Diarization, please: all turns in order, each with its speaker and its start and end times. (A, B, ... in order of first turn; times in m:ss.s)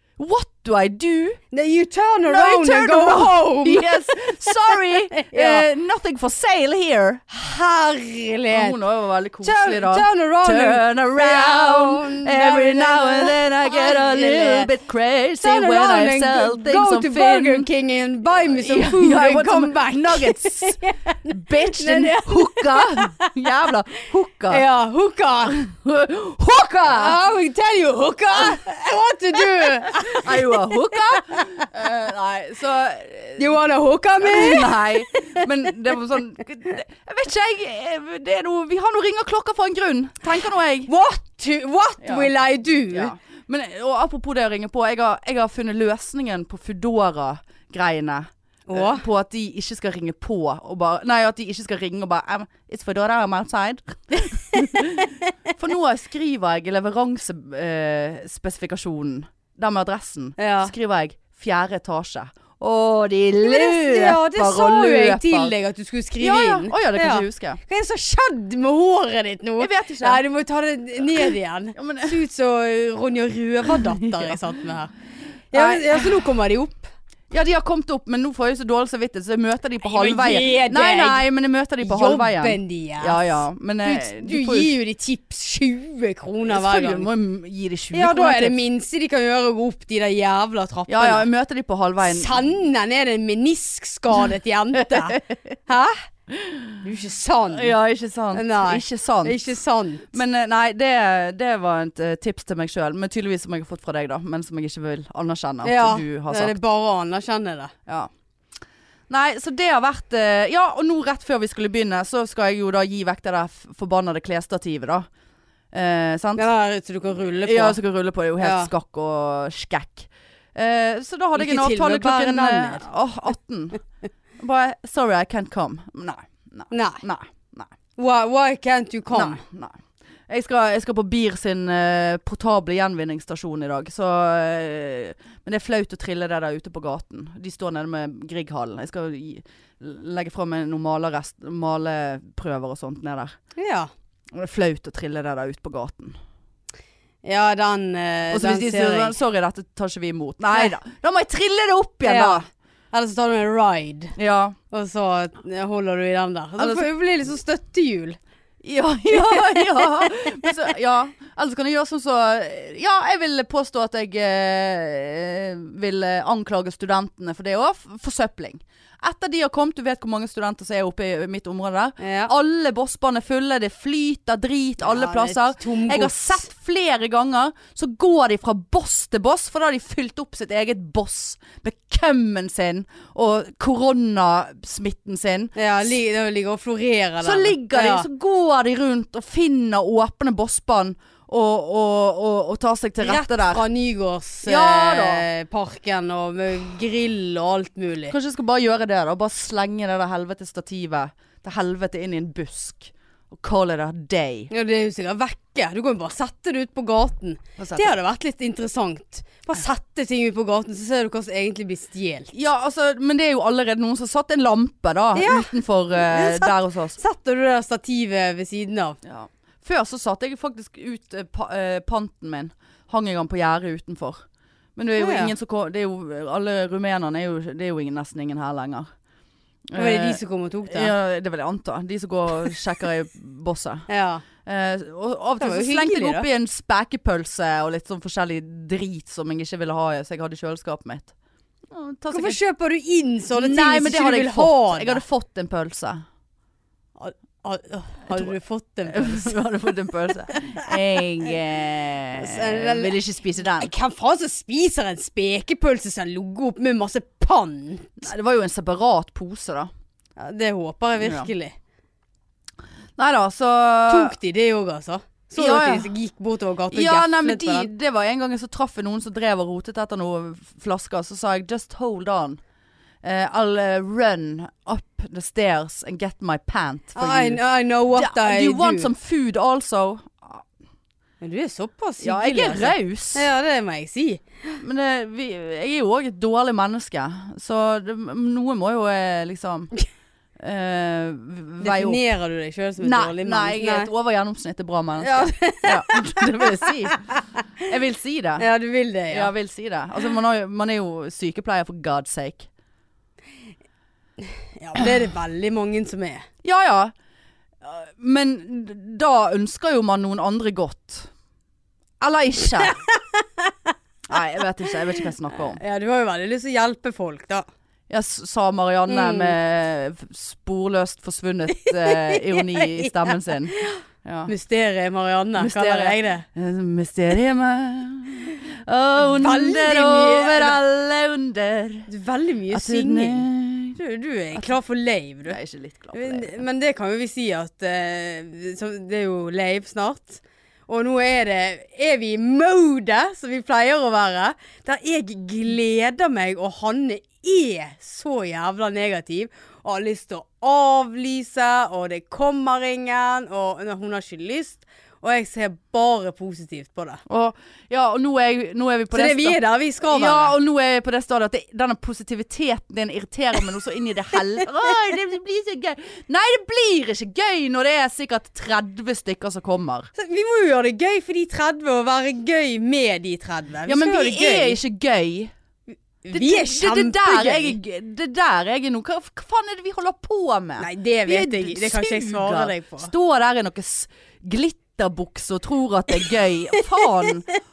0:00.2-0:01.4 A
0:01.5-0:04.5 B
0:02.3-0:07.2 A
0:05.1-0:05.6 B
0:07.3-0:08.8 B
0:08.5-0:17.7 A
0:09.4-0:14.7 B
0:15.4-0:23.3 B
0:18.5-0:24.6 A
0:24.5-0:25.6 B
0:25.4-0:27.2 A
0:26.9-0:31.6 B
0:28.3-0:28.6 A
0:29.6-0:33.6 A
0:33.4-0:35.4 B
0:34.2-0:40.9 A
0:40.9-0:43.1 B
0:42.0-0:42.3 A
0:42.9-1:05.5 A
0:48.7-0:49.0 B
1:00.4-1:00.7 B
1:03.4-1:14.9 B
1:06.2-1:07.6 A
1:09.6-1:10.2 A
1:11.0-1:12.2 A
1:13.7-1:14.4 A
1:15.5-1:16.9 B
1:15.5-1:16.3 A
1:17.3-1:24.7 A
1:19.8-1:21.2 B
1:21.8-1:27.1 B
1:26.4-1:28.6 A
1:27.9-1:31.3 B
1:30.9-1:32.4 A
1:32.0-1:36.0 B
1:35.0-1:35.4 A
1:36.3-1:36.8 A
1:36.8-1:37.7 B
1:37.5-1:39.4 A
1:38.3-1:40.1 B
1:40.1-1:46.6 A
1:45.6-1:47.7 B
1:49.1-1:55.1 A
1:55.7-1:56.5 A
1:56.4-1:57.8 B
1:57.4-2:03.8 A
1:58.4-1:58.7 B
2:01.3-2:02.8 B
2:04.4-2:07.7 A
2:06.7-2:07.0 B
2:08.0-2:09.4 B
2:09.1-2:23.3 A
2:23.6-2:23.9 B
2:24.3-2:26.2 A
2:27.2-2:29.2 B
2:28.3-2:32.4 A
2:32.0-2:34.2 B
2:34.2-2:34.6 A
2:34.7-2:38.2 B
2:36.6-2:36.9 A
2:38.6-3:05.5 A
2:39.1-2:40.1 B
2:52.0-2:52.3 B
2:54.8-2:56.4 B
3:05.5-3:08.1 B
3:07.2-3:13.6 A
3:13.0-3:18.1 B
3:14.4-3:15.2 A
3:18.1-3:24.5 A
3:24.5-3:32.3 B
3:27.6-3:28.0 A
3:32.3-3:37.0 A
3:35.1-3:39.0 B
3:39.0-3:44.2 A
3:44.8-3:48.9 A
3:45.0-3:45.3 B
3:49.7-3:53.8 A
3:49.7-3:50.9 B
3:53.9-3:54.2 B
3:54.4-4:01.1 A
3:55.4-3:56.3 B
4:01.7-4:02.4 A
4:02.1-4:05.0 B
4:03.3-4:06.0 A
4:07.0-4:09.4 B
4:08.9-4:13.7 A
4:10.3-4:10.7 B
4:12.1-4:12.9 B
4:13.6-4:18.1 B
4:18.0-4:19.7 A
4:20.2-4:21.5 B
4:21.0-4:21.3 A
4:23.0-4:24.1 A
4:23.9-4:27.7 B
4:25.4-4:25.9 A
4:26.7-4:32.4 A
4:33.0-4:40.4 A
4:37.0-4:38.9 B
4:41.2-4:44.6 B
4:42.0-4:43.3 A
4:44.6-4:49.7 A
4:50.4-4:52.0 A
4:51.6-4:53.9 B
4:52.8-4:57.0 A
4:55.0-4:57.2 B
4:57.6-4:58.5 A
4:58.4-4:59.3 B
4:59.1-5:02.5 A
5:04.2-5:06.3 B
5:06.4-5:06.9 A
5:07.6-5:11.1 A
5:12.0-5:12.8 A
5:13.2-5:13.5 B
5:14.1-5:15.6 A
5:15.6-5:17.4 B
5:17.9-5:24.3 A
5:18.9-5:19.3 B
5:21.8-5:26.2 B
5:25.4-5:31.9 A
5:29.1-5:30.6 B
5:31.9-5:35.4 B
5:32.5-5:33.8 A
5:35.2-5:36.4 A
5:35.9-5:57.0 B
5:57.0-6:09.9 A
5:58.9-6:00.3 B
6:09.9-6:14.6 B
6:13.7-6:15.3 A
6:16.0-6:17.6 B
6:16.1-6:27.3 A
6:20.6-6:22.9 B